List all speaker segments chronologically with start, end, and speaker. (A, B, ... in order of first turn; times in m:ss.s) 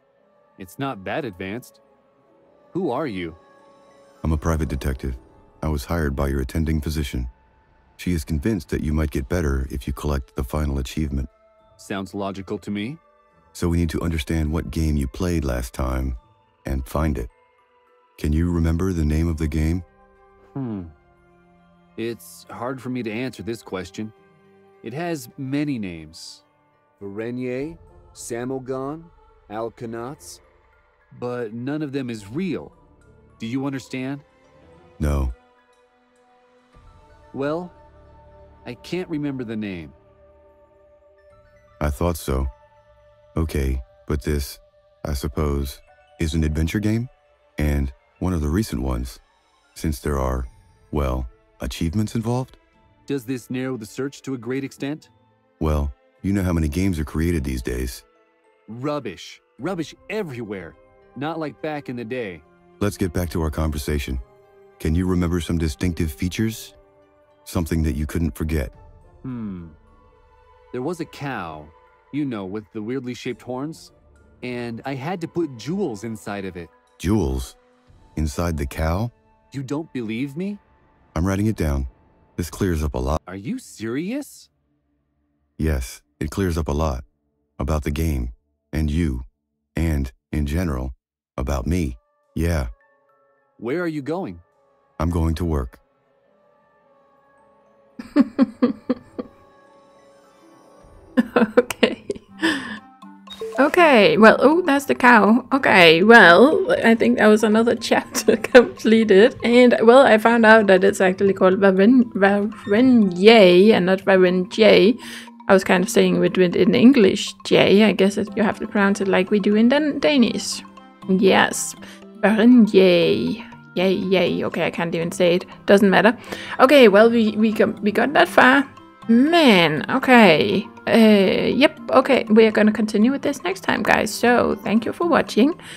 0:00.6-0:01.8 A
0:02.7-0:03.4 A
0:04.2-0:07.3 B
0:08.0-0:11.3 B
0:11.8-0:13.0 A
0:13.5-0:17.3 B
0:18.2-0:19.8 B
0:20.6-0:20.9 A
0:22.0-0:24.1 A
0:24.8-0:26.4 A
0:27.0-0:30.4 A
0:31.1-0:32.8 A
0:33.4-0:34.2 A
0:35.0-0:35.3 B
0:37.3-0:37.8 A
0:38.6-0:40.0 A
0:41.8-0:42.5 B
0:43.4-0:49.2 B
0:49.8-0:52.6 B
0:53.1-0:55.1 A
0:55.6-0:58.0 B
0:58.7-1:02.4 A
1:02.8-1:04.2 B
1:04.8-1:06.8 B
1:07.4-1:08.7 B
1:09.2-1:09.8 A
1:10.7-1:16.7 A
1:17.0-1:17.6 B
1:18.2-1:19.1 B
1:19.5-1:20.6 A
1:21.2-1:23.2 B
1:23.3-1:24.5 A
1:25.6-1:27.0 B
1:27.6-1:32.7 B
1:33.6-1:34.4 A
1:35.0-1:35.8 B
1:38.1-1:39.0 C
1:41.2-1:42.8 C
1:43.6-2:15.6 C